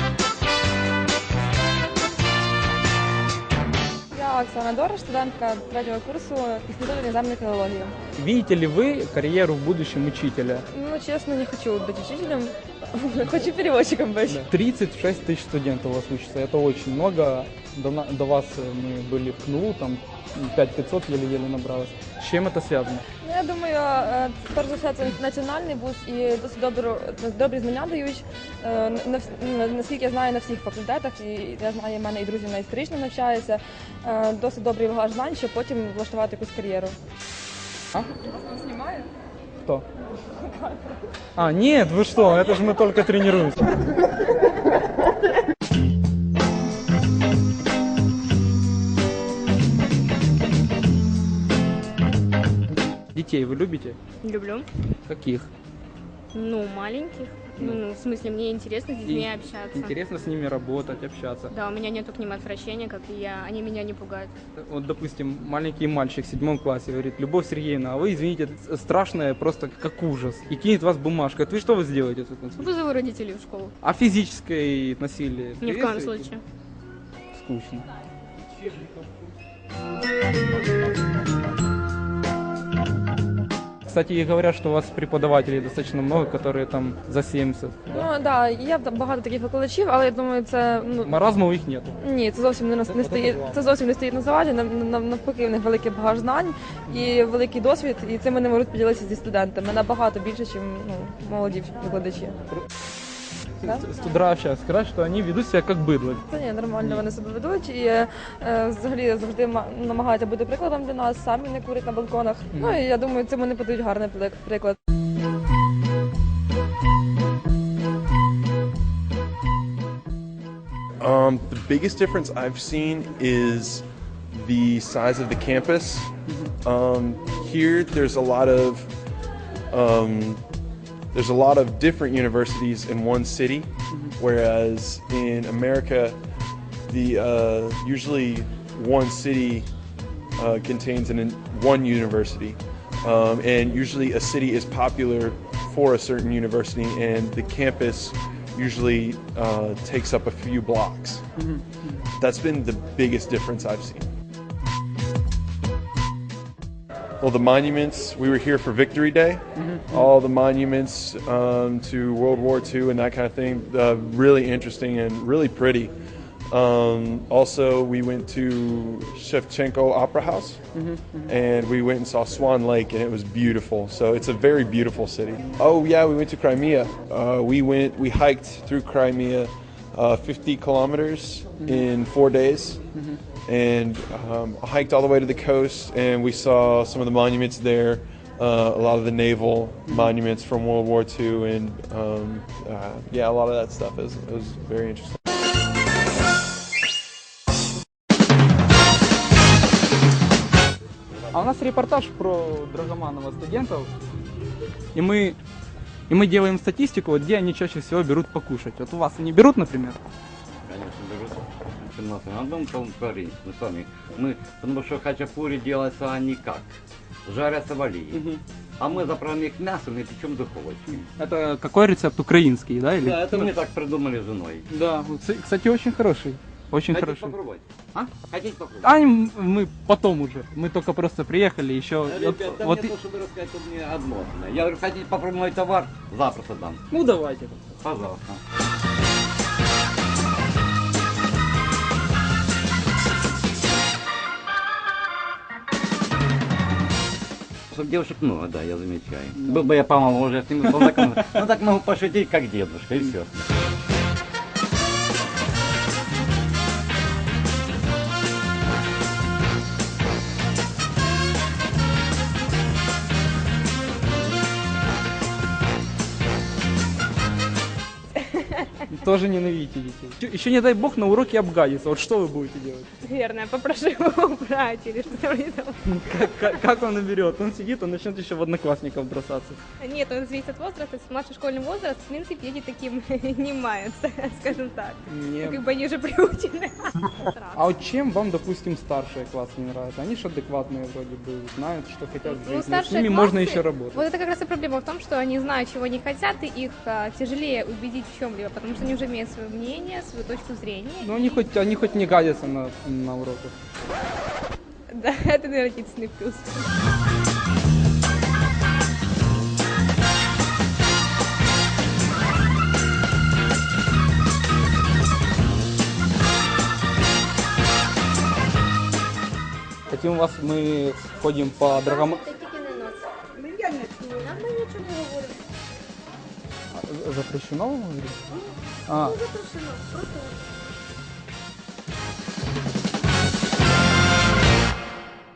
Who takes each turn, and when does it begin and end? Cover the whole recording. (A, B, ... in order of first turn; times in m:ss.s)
0:04.1-0:08.0 A
0:08.2-0:10.7 B
0:10.7-0:14.5 A
0:14.3-0:23.0 B
0:23.2-0:37.0 A
0:38.4-0:39.0 A
0:40.4-0:40.8 A
0:41.4-0:43.7 B
0:53.1-0:54.0 B
0:54.2-0:54.7 C
0:55.0-0:55.5 B
0:56.3-1:00.0 C
0:59.0-1:01.5 B
1:01.5-1:04.3 C
1:04.6-1:12.7 B
1:12.6-1:13.7 C
1:13.8-1:16.3 B
1:15.6-1:16.4 C
1:17.3-1:17.9 B
1:23.8-1:28.1 B
1:27.9-1:31.4 A
1:31.0-1:32.0 B
1:32.0-1:42.4 A
1:32.9-1:33.5 B
1:43.6-1:46.2 B
1:46.3-1:54.8 A
2:01.0-2:06.1 D
2:06.6-2:08.9 D
2:09.7-2:10.4 D
2:11.1-2:16.2 D
2:16.9-2:19.7 D
2:20.4-2:31.2 D
2:32.2-2:34.1 D
2:37.2-2:45.9 D
2:39.6-2:39.9 B
2:46.5-2:50.6 D
2:50.8-2:51.3 B
2:51.3-3:02.8 D
3:03.5-3:15.2 D
3:21.3-3:23.9 B
3:24.9-3:25.4 B
3:26.1-3:30.0 B
3:30.6-3:38.3 E
3:38.1-3:38.4 B
3:38.8-3:41.1 E
3:41.2-3:43.5 B
3:43.0-3:44.7 E
3:44.7-3:47.4 B
3:46.9-3:48.9 E
3:48.8-3:52.9 B
3:52.0-3:56.8 E
3:56.9-3:57.7 B
3:57.8-3:58.4 E
4:07.7-4:13.4 E
4:28.2-4:28.7 C
4:28.9-4:32.9 B
4:33.0-4:36.0 C
4:35.8-4:39.6 B
4:39.8-4:47.6 C
4:45.1-4:45.6 B
4:47.5-4:54.1 B
4:52.2-5:01.2 C
5:01.0-5:03.5 B
5:04.9-5:06.7 C
5:19.9-5:22.2 B
5:21.8-5:25.4 C
5:26.7-5:28.2 B
5:28.9-5:29.2 B
5:29.0-5:30.4 C